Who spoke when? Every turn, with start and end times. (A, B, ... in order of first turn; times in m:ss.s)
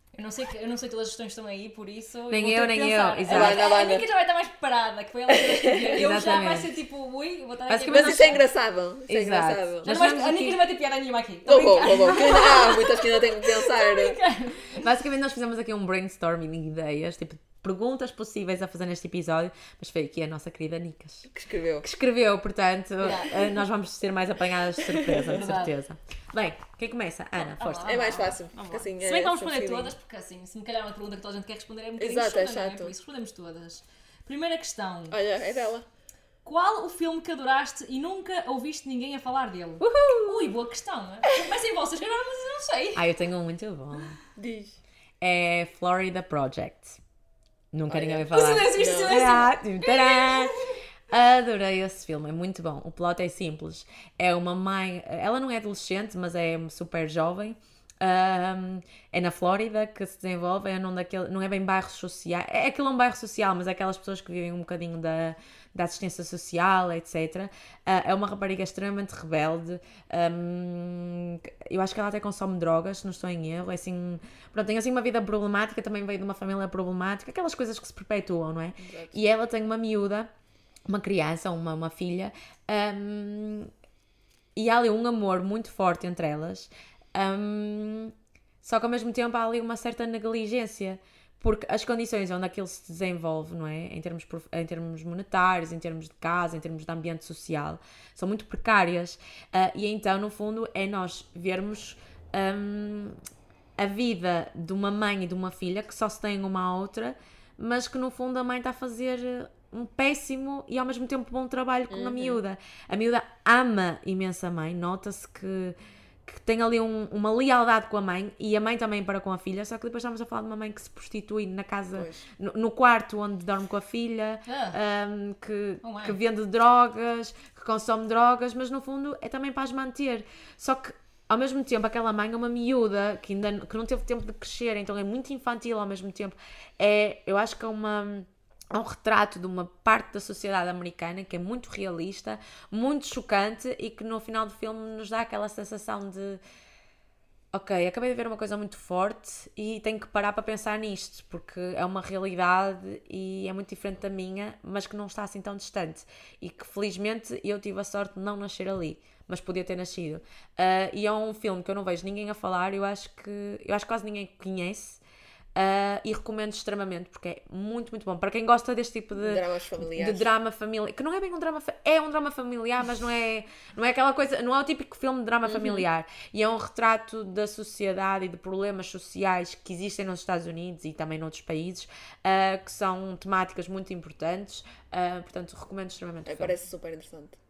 0:00.1-0:08.4 A
0:02.3-0:03.7 B
0:03.3-0:04.0 C
0:05.3-0:06.0 C
0:05.8-0:06.7 B
0:07.7-0:08.4 B
0:07.9-0:09.9 C
0:09.1-0:10.6 B
0:09.8-0:14.8 A
0:11.4-0:14.2 C
0:14.7-0:21.3 B
0:21.3-0:21.9 C
0:21.8-0:27.9 B
0:23.0-0:23.5 A
0:24.8-0:25.2 C
0:25.2-0:25.7 A
0:27.4-0:35.2 A
0:27.7-0:29.9 C
0:32.0-0:32.9 C
0:35.1-0:35.8 C
0:36.4-0:43.0 A
0:39.8-0:40.5 B
0:42.9-0:44.2 B
0:44.4-0:44.8 C
0:45.2-0:47.0 B
0:47.7-0:50.6 B
0:47.9-0:49.2 C
0:48.3-0:50.8 A
0:51.1-1:20.3 B
1:18.8-1:19.2 C
1:20.9-1:23.7 B
1:24.6-1:43.2 B
1:43.8-2:26.4 B
1:51.9-1:52.4 C
2:01.9-2:02.2 C
2:04.5-2:04.8 A
2:05.8-2:06.2 A
2:27.5-2:45.0 B
2:45.5-3:06.5 B
2:49.2-2:50.3 C
2:55.5-2:55.8 C
3:06.2-3:07.4 C